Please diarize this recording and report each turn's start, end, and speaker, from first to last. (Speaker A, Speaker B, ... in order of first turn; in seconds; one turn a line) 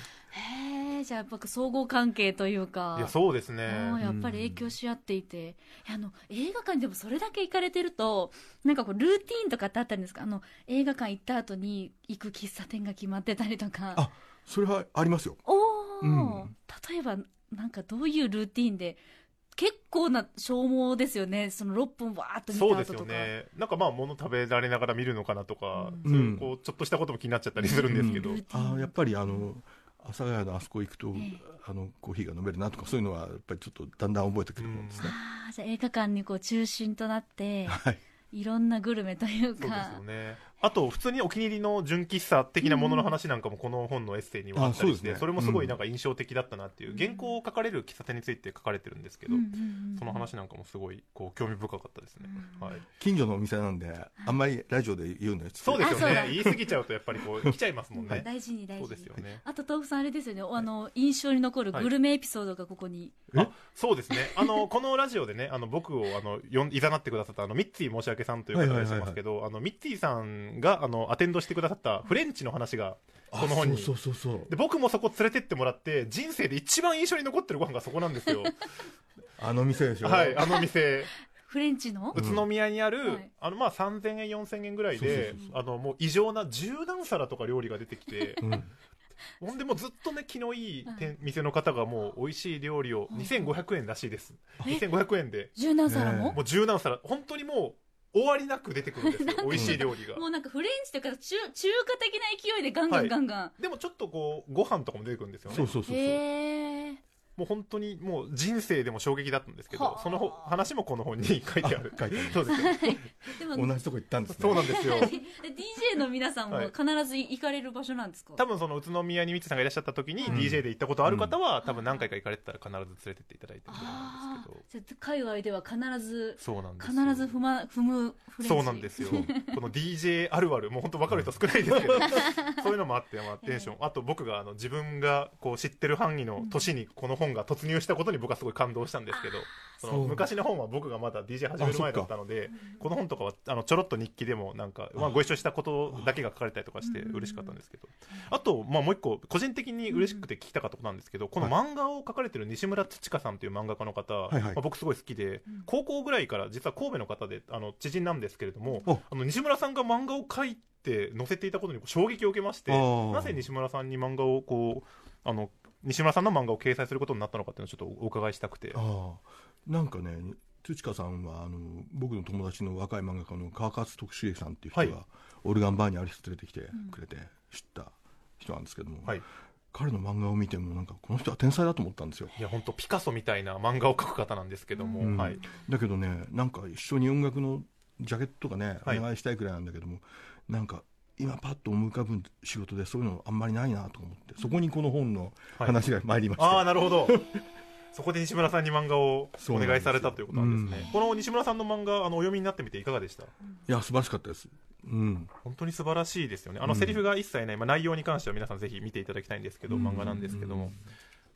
Speaker A: 0.3-3.1
Speaker B: 2.9-4.0
Speaker A: 3.6-14.1
Speaker C: 4.0-4.7
Speaker C: 13.9-15.4
Speaker A: 15.4-19.0
Speaker C: 16.0-16.5
Speaker A: 19.5-23.3
Speaker B: 22.5-28.4
Speaker A: 25.7-26.0
Speaker C: 26.0-26.5
Speaker A: 27.6-29.4
Speaker C: 27.9-35.1
Speaker A: 31.1-31.4
Speaker B: 34.6-35.1
Speaker A: 35.0-40.0
Speaker C: 37.6-38.0
Speaker B: 39.6-52.8
Speaker A: 42.6-43.1
Speaker C: 44.5-45.8
Speaker A: 46.9-47.3
Speaker A: 49.3-50.3
Speaker A: 52.2-52.8
Speaker C: 53.0-56.5
Speaker B: 55.6-59.4
Speaker A: 55.8-56.6
Speaker A: 57.9-63.2
Speaker B: 63.3-78.6
Speaker A: 64.1-64.5
Speaker C: 68.5-69.2
Speaker C: 73.3-74.5
Speaker C: 79.4-80.5
Speaker B: 80.0-81.1
Speaker A: 81.4-82.2
Speaker B: 82.1-88.5
Speaker C: 82.1-82.5
Speaker A: 83.0-83.3
Speaker C: 84.9-85.5
Speaker A: 85.1-85.5
Speaker A: 88.2-88.6
Speaker C: 88.4-88.7
Speaker B: 89.4-95.5
Speaker A: 90.8-91.1
Speaker A: 93.1-93.6
Speaker A: 95.5-96.4
Speaker C: 95.8-96.4
Speaker B: 96.3-100.2
Speaker A: 99.0-103.5
Speaker C: 99.5-99.8
Speaker B: 102.9-105.7
Speaker C: 105.5-106.2
Speaker A: 105.8-107.0
Speaker B: 107.4-113.0
Speaker A: 109.7-110.5
Speaker C: 111.6-112.7
Speaker A: 112.5-113.7
Speaker C: 113.5-115.1
Speaker B: 114.3-115.1
Speaker A: 114.5-118.4
Speaker B: 118.4-124.6
Speaker A: 120.2-120.5
Speaker C: 120.3-121.3
Speaker A: 121.6-122.0
Speaker A: 123.7-129.6
Speaker B: 126.4-127.4
Speaker B: 128.4-168.8
Speaker C: 129.0-129.3
Speaker C: 131.1-132.1
Speaker A: 132.1-132.3
Speaker A: 133.4-133.7
Speaker A: 136.4-136.7
Speaker A: 139.1-140.2
Speaker C: 139.9-140.3
Speaker C: 141.6-142.1
Speaker A: 142.5-142.9
Speaker C: 145.9-146.2
Speaker A: 146.8-147.6
Speaker A: 149.9-150.2
Speaker C: 154.3-154.6
Speaker C: 162.7-163.4
Speaker C: 168.7-179.2
Speaker A: 176.7-177.0
Speaker C: 179.7-182.3
Speaker B: 182.4-185.4
Speaker A: 184.8-185.5
Speaker C: 185.0-197.4
Speaker B: 196.3-197.2
Speaker B: 197.9-203.3
Speaker C: 199.4-200.9
Speaker C: 203.7-205.3
Speaker B: 205.4-210.8
Speaker C: 206.6-207.0
Speaker C: 209.7-210.8
Speaker A: 209.8-210.3